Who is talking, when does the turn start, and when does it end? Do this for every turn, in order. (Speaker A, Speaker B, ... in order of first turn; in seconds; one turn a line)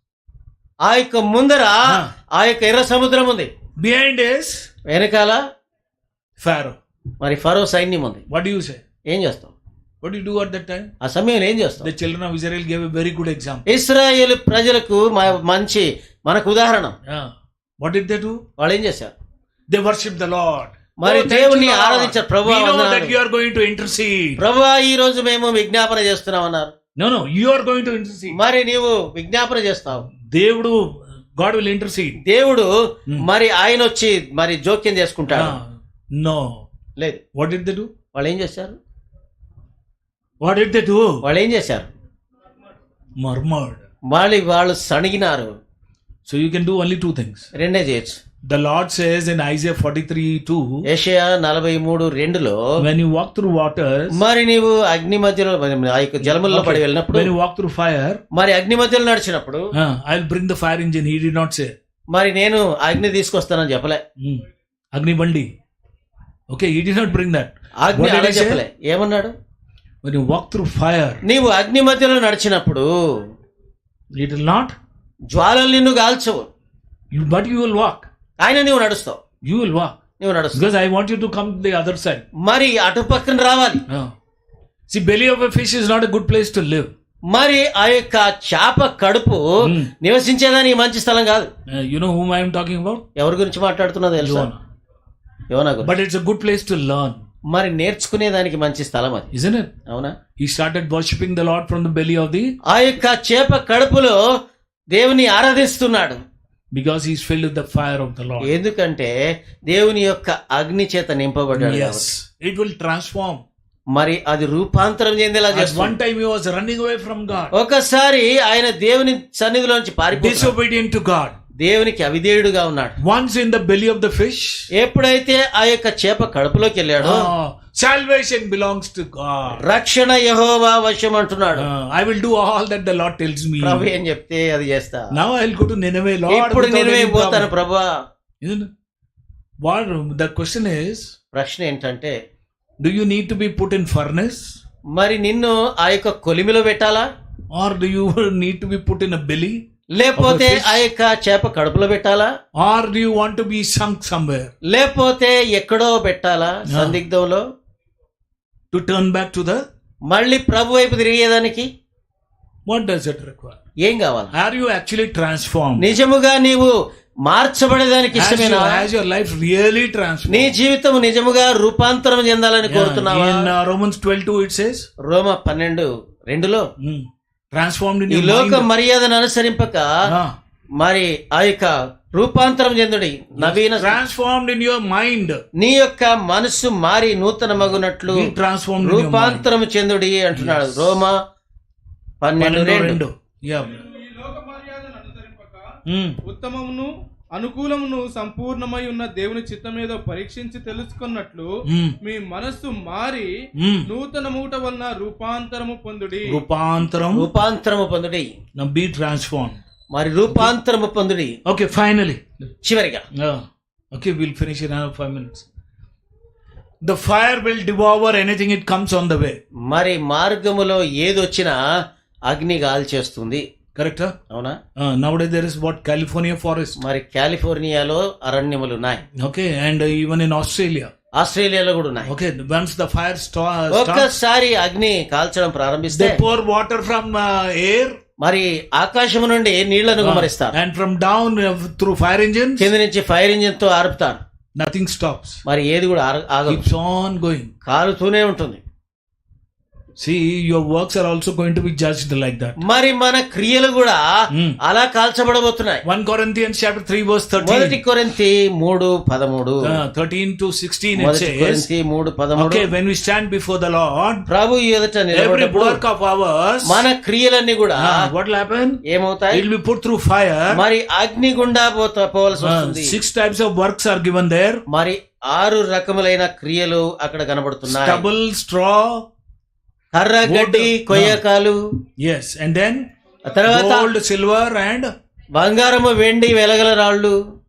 Speaker A: 0.8-3.5
Speaker B: 3.8-4.7
Speaker A: 4.9-5.4
Speaker B: 6.4-6.8
Speaker A: 7.2-8.2
Speaker B: 8.3-8.8
Speaker A: 9.1-9.5
Speaker B: 10.0-10.9
Speaker A: 11.0-11.9
Speaker B: 11.8-13.6
Speaker A: 13.7-16.9
Speaker B: 17.1-18.4
Speaker A: 18.6-19.1
Speaker B: 19.7-24.4
Speaker A: 21.0-23.1
Speaker A: 24.4-26.7
Speaker B: 27.0-28.3
Speaker A: 28.3-30.1
Speaker B: 30.2-32.2
Speaker A: 32.2-32.7
Speaker A: 33.2-35.5
Speaker B: 35.3-36.6
Speaker B: 37.3-37.9
Speaker A: 38.1-38.8
Speaker B: 40.4-41.2
Speaker A: 41.2-41.9
Speaker B: 43.2-43.8
Speaker A: 44.1-45.5
Speaker B: 46.3-47.5
Speaker A: 47.5-48.2
Speaker B: 48.5-50.8
Speaker A: 50.9-52.7
Speaker B: 52.8-54.1
Speaker A: 54.1-57.3
Speaker B: 56.2-58.2
Speaker A: 58.3-59.7
Speaker B: 59.7-61.7
Speaker A: 62.1-64.0
Speaker B: 64.9-65.5
Speaker B: 66.5-68.6
Speaker A: 67.8-69.3
Speaker B: 70.0-71.2
Speaker A: 71.2-72.9
Speaker B: 74.1-74.7
Speaker A: 75.3-76.5
Speaker B: 77.1-78.1
Speaker A: 78.4-79.2
Speaker B: 79.4-79.9
Speaker A: 80.2-80.6
Speaker B: 80.5-82.2
Speaker A: 82.4-83.8
Speaker B: 84.9-86.9
Speaker A: 87.3-91.5
Speaker B: 89.6-89.9
Speaker B: 91.7-93.0
Speaker A: 93.2-94.5
Speaker B: 94.2-94.6
Speaker A: 95.5-95.9
Speaker B: 95.8-97.2
Speaker A: 97.5-99.3
Speaker B: 99.3-99.7
Speaker A: 99.9-100.1
Speaker B: 100.4-102.5
Speaker A: 102.7-104.2
Speaker A: 104.9-106.2
Speaker B: 106.7-108.5
Speaker A: 108.4-109.1
Speaker A: 109.7-112.1
Speaker B: 111.6-113.4
Speaker A: 113.9-115.9
Speaker B: 115.5-117.5
Speaker A: 117.5-120.5
Speaker B: 120.1-121.4
Speaker A: 121.6-123.0
Speaker B: 123.0-124.7
Speaker A: 124.7-127.3
Speaker B: 127.0-129.6
Speaker A: 129.6-131.7
Speaker B: 131.6-133.9
Speaker A: 133.6-135.1
Speaker B: 135.1-137.5
Speaker A: 136.3-137.9
Speaker B: 138.4-138.7
Speaker B: 139.6-141.1
Speaker A: 141.3-142.1
Speaker B: 142.8-144.6
Speaker A: 144.9-147.0
Speaker B: 147.5-149.6
Speaker A: 149.9-152.3
Speaker B: 150.1-150.8
Speaker B: 152.6-154.5
Speaker A: 154.7-157.4
Speaker B: 156.7-157.0
Speaker B: 158.7-159.6
Speaker A: 160.1-161.7
Speaker B: 162.7-163.6
Speaker A: 163.8-164.3
Speaker B: 164.3-165.9
Speaker A: 165.8-166.7
Speaker A: 167.3-168.9
Speaker B: 168.1-170.5
Speaker A: 170.3-173.5
Speaker B: 172.7-174.8
Speaker A: 175.1-176.7
Speaker B: 176.8-178.7
Speaker A: 178.1-179.9
Speaker A: 180.8-184.0
Speaker B: 183.4-185.4
Speaker A: 185.6-191.1
Speaker B: 188.1-189.4
Speaker B: 190.3-191.0
Speaker A: 192.2-193.0
Speaker B: 192.4-193.8
Speaker C: 193.8-195.7
Speaker B: 195.8-196.2
Speaker C: 196.2-201.5
Speaker B: 201.6-201.9
Speaker C: 202.0-203.3
Speaker B: 203.6-203.9
Speaker C: 203.8-206.4
Speaker B: 206.2-207.3
Speaker A: 207.1-208.3
Speaker B: 208.6-209.6
Speaker A: 209.9-211.3
Speaker B: 211.4-212.2
Speaker A: 212.6-213.0
Speaker B: 213.1-215.4
Speaker B: 216.8-219.4
Speaker A: 219.7-221.6
Speaker A: 222.3-223.4
Speaker B: 223.8-224.1
Speaker A: 224.3-224.6
Speaker B: 224.8-226.8
Speaker A: 226.8-229.0
Speaker B: 229.2-230.9
Speaker A: 231.2-232.1
Speaker B: 232.0-234.1
Speaker A: 233.7-236.2
Speaker B: 235.9-237.9
Speaker A: 238.2-240.5
Speaker B: 240.0-242.7
Speaker A: 242.6-244.2
Speaker B: 244.6-245.4
Speaker A: 245.4-246.6
Speaker B: 246.5-247.5
Speaker A: 247.7-248.6
Speaker B: 250.0-252.6
Speaker A: 252.6-254.0
Speaker B: 254.3-254.6
Speaker A: 254.6-255.8
Speaker B: 255.8-257.8
Speaker A: 257.4-259.8
Speaker B: 259.6-261.6
Speaker A: 260.9-262.6
Speaker B: 262.4-264.2
Speaker A: 264.3-265.8
Speaker B: 265.1-266.8
Speaker A: 266.6-268.0
Speaker B: 267.8-268.8
Speaker A: 268.9-269.4
Speaker B: 269.3-270.6
Speaker A: 270.5-272.9
Speaker B: 272.4-274.6
Speaker A: 274.7-278.0
Speaker B: 277.6-279.0
Speaker A: 279.9-281.6
Speaker B: 280.2-281.2
Speaker B: 282.0-282.8
Speaker A: 283.3-283.9
Speaker B: 283.4-284.9
Speaker A: 285.3-287.2